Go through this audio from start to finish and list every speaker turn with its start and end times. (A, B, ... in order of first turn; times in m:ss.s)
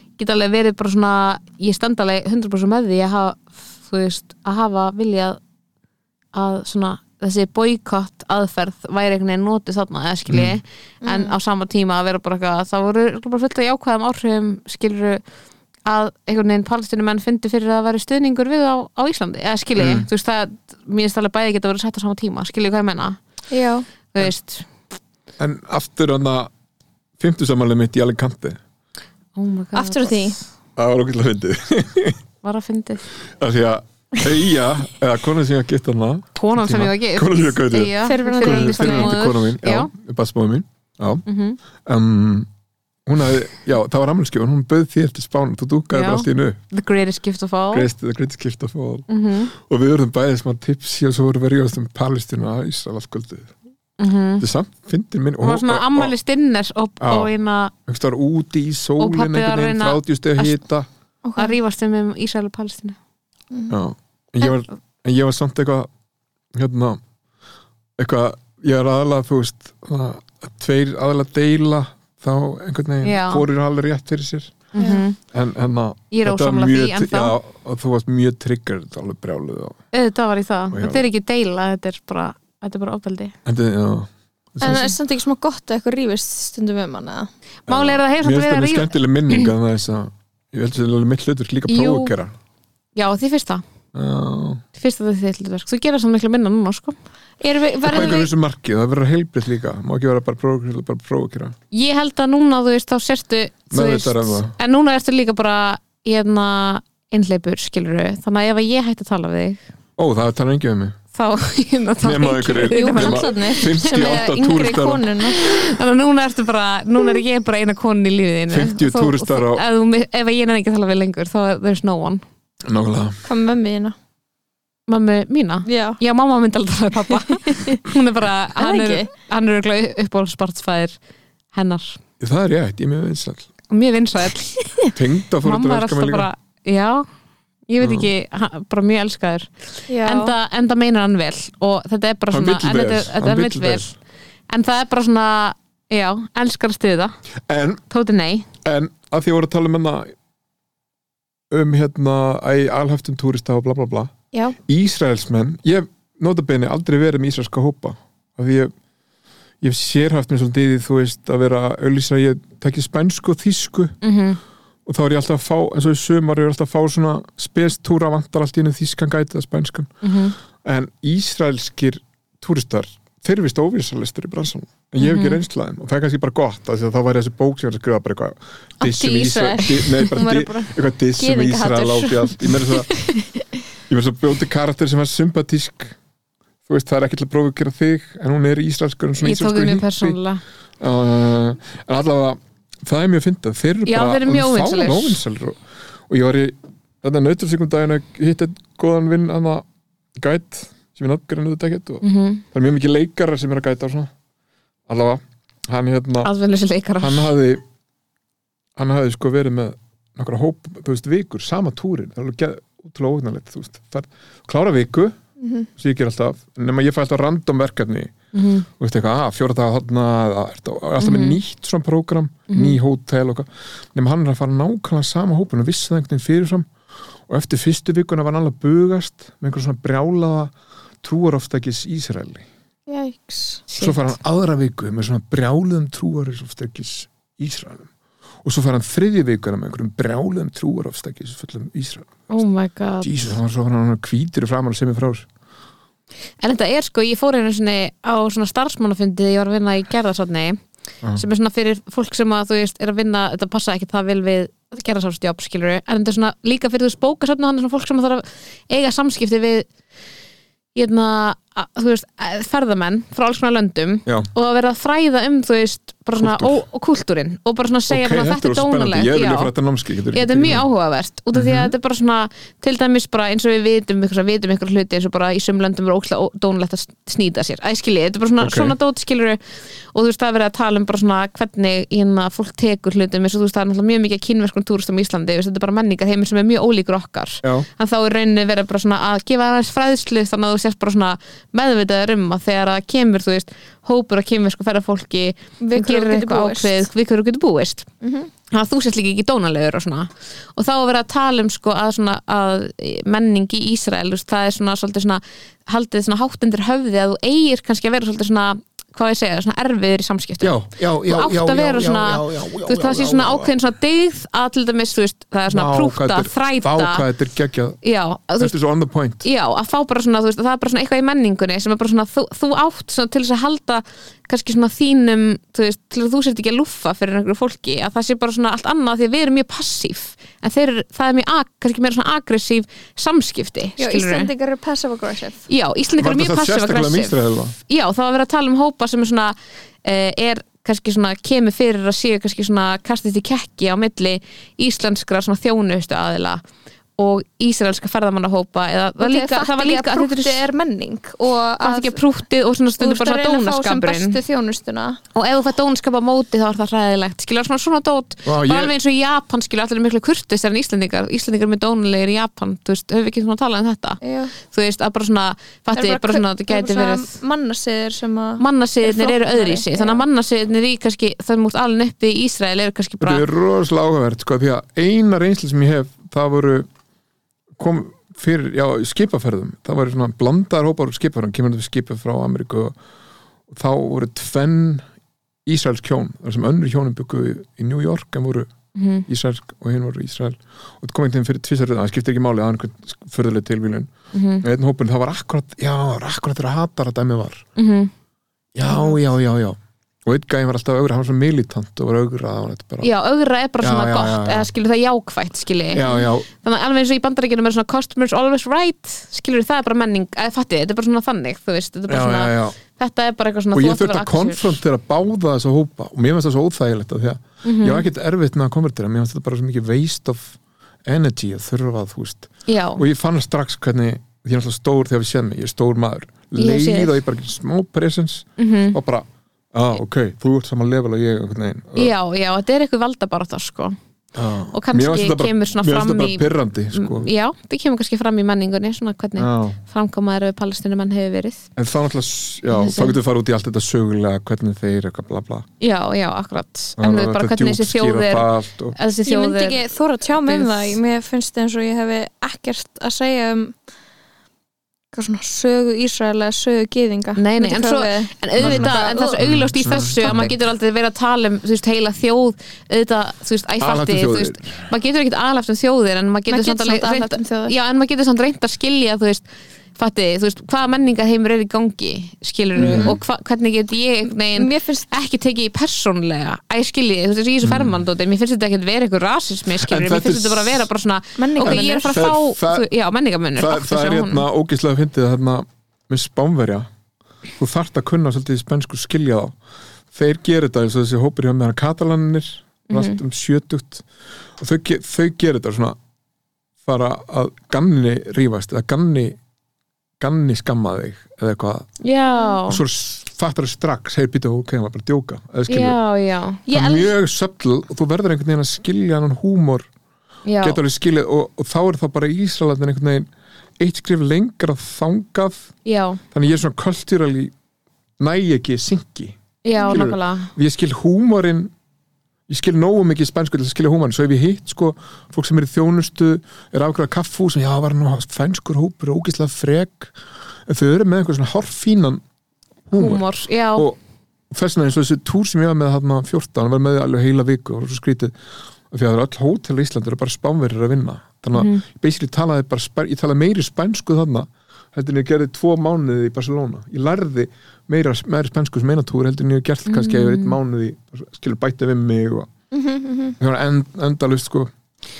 0:00.2-0:05.4 A
0:06.3-0:15.2 A
0:10.3-0:10.6 B
0:11.0-0:11.4 C
0:15.9-0:23.2 A
0:19.8-0:20.1 B
0:23.5-0:23.9 C
0:24.1-0:24.7 A
0:25.4-0:26.5 B
0:27.2-0:28.6 B
0:29.4-0:30.4 A
0:29.8-0:30.4 C
0:30.8-0:32.2 B
0:32.4-0:33.0 A
0:33.4-0:41.2 B
0:36.4-0:39.9 A
0:38.0-0:39.2 C
0:41.3-0:41.6 A
0:41.8-0:42.5 B
0:43.1-0:46.6 B
0:45.9-0:47.9 A
0:47.7-0:53.5 B
0:49.1-0:49.5 A
0:54.0-0:54.4 A
0:54.4-0:56.2 B
0:55.4-0:57.7 A
0:57.0-0:57.3 B
0:57.9-1:00.9 B
0:59.0-1:00.6 A
1:01.2-1:01.6 C
1:01.4-1:03.0 A
1:03.7-1:05.9 B
1:06.6-1:07.0 B
1:08.0-1:14.7 B
1:13.0-1:13.5 A
1:14.8-1:15.2 A
1:14.8-1:15.0 C
1:15.3-1:19.8 B
1:16.1-1:17.4 A
1:19.9-1:23.3 A
1:20.7-1:21.0 B
1:23.4-1:24.9 B
1:24.6-1:27.3 C
1:27.7-1:29.5 A
1:27.7-1:32.3 B
1:31.7-1:32.1 A
1:33.0-1:33.6 A
1:33.9-1:34.6 B
1:34.8-1:37.0 A
1:37.4-1:38.3 C
1:37.8-1:41.6 B
1:41.7-1:49.6 A
1:43.7-1:44.6 B
1:50.0-1:51.0 B
1:51.1-1:54.2 A
1:52.0-1:55.1 B
1:52.7-1:55.4 C
1:55.4-2:02.2 A
1:58.5-1:59.6 B
2:02.6-2:03.2 B
2:03.2-2:04.0 C
2:04.9-2:11.0 A
2:05.7-2:06.0 C
2:07.3-2:07.8 C
2:08.6-2:09.1 C
2:11.5-2:12.0 A
2:12.2-2:13.5 B
2:13.7-2:17.1 A
2:15.0-2:16.3 B
2:17.7-2:24.0 A
2:17.8-2:18.1 B
2:19.9-2:20.3 C
2:22.3-2:23.9 B
2:24.5-2:27.1 A
2:27.5-2:27.8 B
2:27.9-2:28.5 A
2:28.6-2:30.1 B
2:31.5-2:38.7 B
2:39.6-2:44.0 B
2:44.0-2:44.4 A
2:44.9-2:49.9 B
2:50.0-2:50.4 A
2:50.6-3:02.9 B
2:55.0-2:55.4 A
2:58.8-3:03.2 C
3:03.9-3:06.0 B
3:06.7-3:10.2 B
3:09.2-3:10.4 A
3:10.8-3:19.6 B
3:13.9-3:15.2 A
3:20.2-3:24.1 B
3:22.0-3:22.4 A
3:24.9-3:26.3 B
3:26.2-3:27.3 A
3:27.0-3:27.6 B
3:28.8-3:35.2 B
3:35.4-3:35.7 C
3:35.8-3:38.1 B
3:38.3-3:38.7 A
3:38.7-3:46.7 B
3:41.0-3:41.4 A
3:42.5-3:42.8 A
3:47.3-3:52.5 B
3:52.9-3:53.6 C
3:53.7-3:54.1 A
3:53.8-3:57.9 B
3:58.4-4:02.2 B
4:02.3-4:03.3 A
4:03.0-4:05.3 B
4:06.4-4:10.6 A
4:11.2-4:19.7 A
4:20.8-4:29.5 A
4:26.2-4:26.6 B
4:27.9-4:30.6 B
4:30.1-4:39.4 A
4:31.3-4:31.7 B
4:38.4-4:38.8 B
4:39.9-4:57.9 A
4:55.6-4:56.9 C
4:58.0-4:58.3 C
4:58.5-5:17.1 A
5:10.4-5:13.5 B
5:15.5-5:17.8 B
5:17.8-5:18.5 A
5:18.4-5:19.3 B
5:19.2-5:34.3 A
5:33.8-5:35.4 C
5:35.5-5:37.2 A
5:36.0-5:37.6 B
5:37.7-5:46.4 A
5:47.0-5:50.4 A
5:49.0-5:52.0 C
5:51.6-5:54.2 A
5:52.8-5:55.0 C
5:55.2-6:07.1 A
5:58.2-5:58.7 B
6:04.0-6:04.3 C
6:05.7-6:10.0 C
6:08.4-6:13.2 A
6:13.0-6:16.7 B
6:17.6-6:22.8 B
6:23.5-6:24.9 B
6:25.5-6:28.5 B
6:28.8-6:29.0 A
6:29.1-6:37.5 B
6:34.1-6:34.4 A
6:37.6-6:37.9 A
6:38.6-6:42.9 B
6:42.8-6:54.6 A
6:43.6-6:44.5 B
6:45.7-6:46.3 B
6:51.9-6:52.6 B
6:53.5-7:11.9 B
6:57.4-6:57.9 A
7:02.5-7:02.8 A
7:06.4-7:06.9 A
7:08.4-7:08.8 A
7:11.8-7:13.8 A
7:14.2-7:17.1 B
7:14.5-7:21.5 A
7:19.2-7:19.6 B
7:21.6-7:25.5 B
7:22.5-7:23.0 A
7:25.6-7:29.6 A
7:26.8-7:28.8 B
7:29.0-7:33.6 C
7:30.2-7:30.8 A
7:34.9-7:39.2 C
7:37.2-7:49.2 A
7:38.4-7:40.3 B
7:40.0-7:40.3 C
7:43.6-7:44.7 B
7:46.3-7:47.6 C
7:49.8-8:04.2 A
7:52.6-7:53.0 B
7:52.6-7:53.0 C
7:54.4-7:54.9 C
7:57.4-7:57.8 B
7:59.6-8:00.7 B
8:01.2-8:02.1 C
8:01.4-8:02.7 B
8:03.4-8:06.7 B
8:07.4-8:09.4 B
8:09.9-8:13.8 B
8:12.7-8:13.0 A
8:14.4-8:15.8 B
8:16.6-8:19.2 B
8:20.0-8:21.7 B
8:21.8-8:22.6 A
8:22.5-8:25.8 B
8:25.5-8:26.5 A
8:26.5-8:26.9 C
8:26.5-8:29.7 B
8:30.3-8:30.6 A
8:30.4-8:33.1 B
8:33.6-8:35.5 B
8:35.7-8:36.0 A
8:36.1-8:37.3 B
8:38.0-8:41.5 B
8:39.4-8:40.3 A
8:42.3-8:49.9 B
8:50.5-8:52.0 B
8:52.7-8:53.8 B
8:52.8-8:53.7 A
8:54.3-8:58.2 B
8:58.7-9:12.3 B
9:01.3-9:01.6 A
9:09.7-9:10.4 A
9:12.5-9:13.2 C
9:13.2-9:14.5 B